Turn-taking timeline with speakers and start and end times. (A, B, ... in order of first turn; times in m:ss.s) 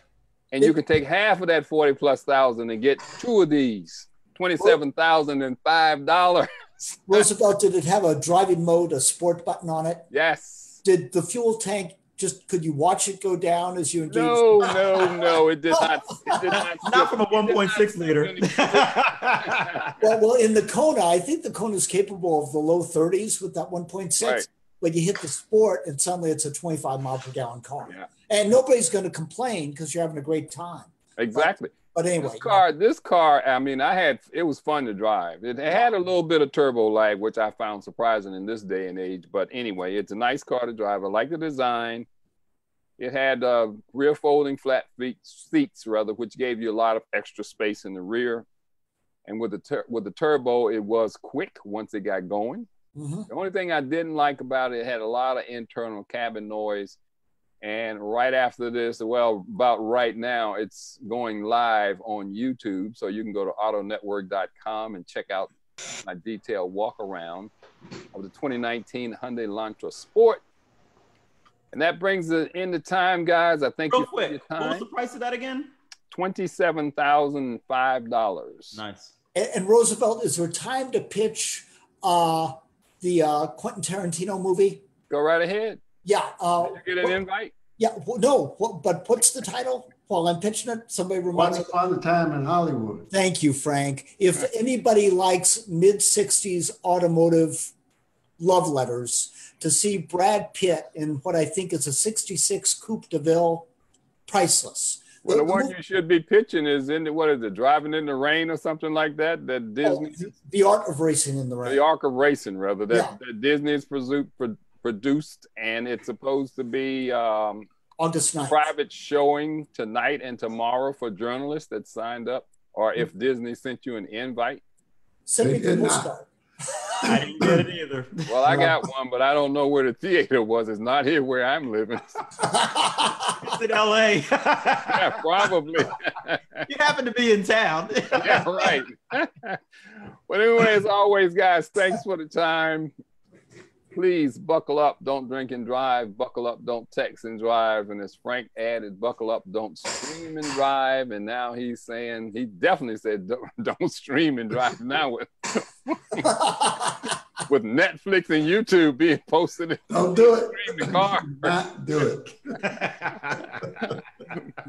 0:00.5-0:07.2 A
0:07.1-0:10.1 B
0:10.1-0:10.8 A
0:10.8-0:16.6 B
0:14.1-0:19.7 A
0:16.8-0:19.8 C
0:20.0-0:32.6 B
0:24.2-0:24.5 A
0:31.2-0:42.1 A
0:43.0-0:48.5 A
0:49.3-0:52.7 A
0:53.0-0:53.3 B
0:53.3-0:57.0 A
0:57.6-1:07.5 A
1:08.1-1:10.4 A
1:11.7-1:14.9 A
1:13.9-1:15.7 C
1:16.1-1:18.8 A
1:18.7-1:19.1 C
1:19.4-1:24.8 B
1:25.1-1:25.8 A
1:26.0-1:27.2 B
1:26.6-1:27.5 A
1:27.8-1:31.7 B
1:31.3-1:33.1 D
1:33.1-1:37.7 B
1:38.4-1:43.7 B
1:44.3-1:45.7 B
1:45.2-1:50.2 A
1:49.8-1:51.8 B
1:51.6-1:57.7 A
1:52.9-1:53.2 B
1:58.0-1:58.7 B
1:58.5-2:04.6 A
2:05.3-2:07.1 B
2:05.4-2:06.1 D
2:07.0-2:07.6 D
2:07.0-2:08.3 C
2:08.3-2:12.2 A
2:08.5-2:08.7 B
2:12.4-2:13.3 B
2:13.3-2:15.0 C
2:14.9-2:16.6 A
2:16.7-2:18.6 C
2:18.2-2:22.9 A
2:23.9-2:36.4 A
2:36.2-2:36.9 B
2:37.5-2:39.9 A
2:39.9-2:42.8 D
2:40.5-2:41.6 A
2:42.6-2:43.5 C